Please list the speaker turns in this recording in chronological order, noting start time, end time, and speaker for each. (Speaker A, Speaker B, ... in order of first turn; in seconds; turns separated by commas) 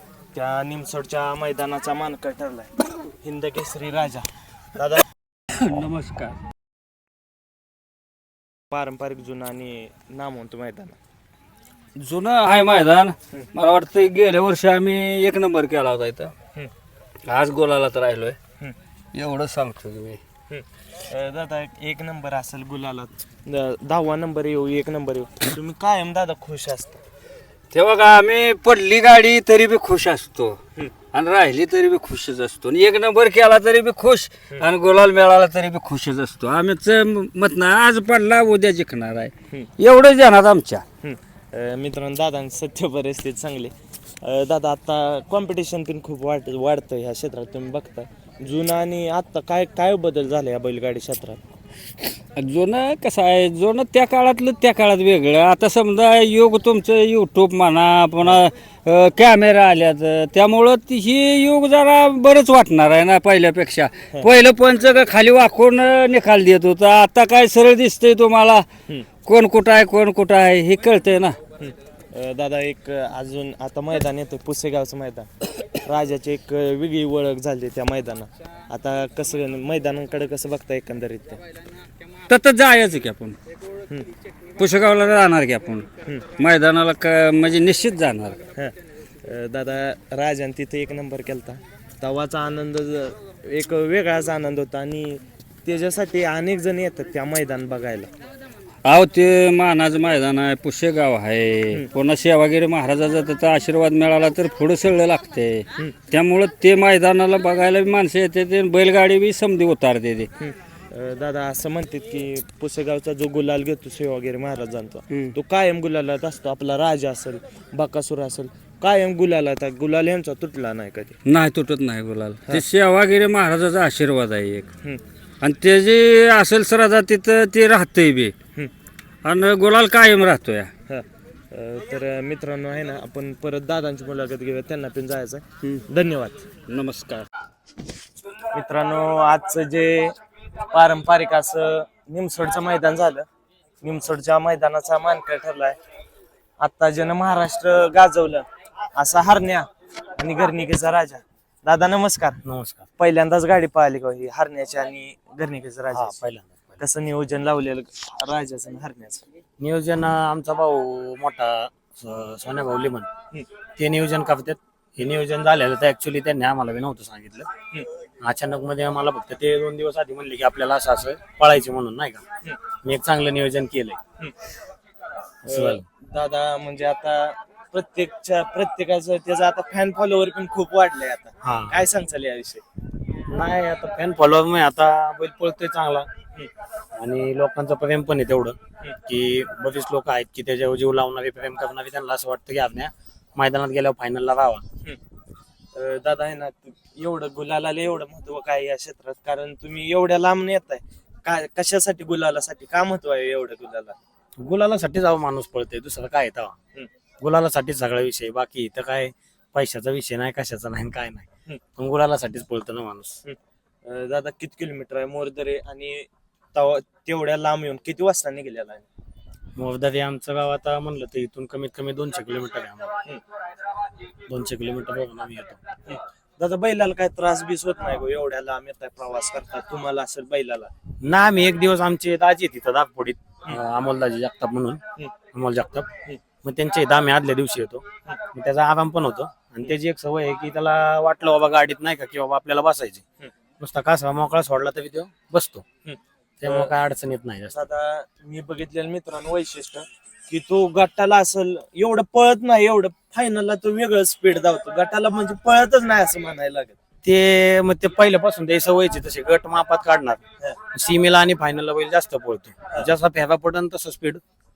Speaker A: 0.3-5.0, Speaker B: 5.5-6.4, Speaker A: 8.7-11.0, Speaker B: 11.9-16.3, Speaker B: 17.2-18.4, Speaker B: 19.1-20.2, Speaker A: 20.5-27.0, Speaker B: 27.7-30.6, Speaker B: 31.1-40.8, Speaker A: 41.0-51.4, Speaker B: 52.4-68.7, Speaker B: 69.2-71.4, Speaker A: 71.6-81.4, Speaker B: 82.3-83.4, Speaker B: 84.6-88.4, Speaker A: 88.5-98.1, Speaker B: 98.8-110.3, Speaker A: 110.4-121.2, Speaker B: 121.2-124.7, Speaker B: 125.4-128.3, Speaker B: 129.2-130.7, Speaker A: 130.9-136.5, Speaker B: 136.7-137.3, Speaker A: 138.5-140.2, Speaker A: 140.7-143.3, Speaker A: 143.8-145.8, Speaker A: 146.6-152.4, Speaker C: 152.4-152.9, Speaker A: 153.0-156.2, Speaker C: 155.9-156.8, Speaker A: 156.8-159.2, Speaker C: 159.6-163.1, Speaker C: 163.8-167.5, Speaker C: 168.2-172.2, Speaker C: 172.8-174.0, Speaker C: 175.4-175.8, Speaker A: 175.4-182.6, Speaker C: 181.4-181.7, Speaker C: 183.2-186.1, Speaker C: 187.0-194.6, Speaker A: 195.7-204.0, Speaker C: 204.4-206.6, Speaker C: 207.2-213.2, Speaker A: 213.2-218.9, Speaker C: 219.6-223.0, Speaker C: 224.3-225.6, Speaker A: 225.9-230.7, Speaker C: 231.0-234.8, Speaker C: 235.3-235.9, Speaker C: 236.4-243.0, Speaker C: 243.6-245.7, Speaker A: 245.8-246.7, Speaker C: 246.4-247.6, Speaker A: 247.5-256.8, Speaker C: 257.0-260.2, Speaker C: 260.7-264.2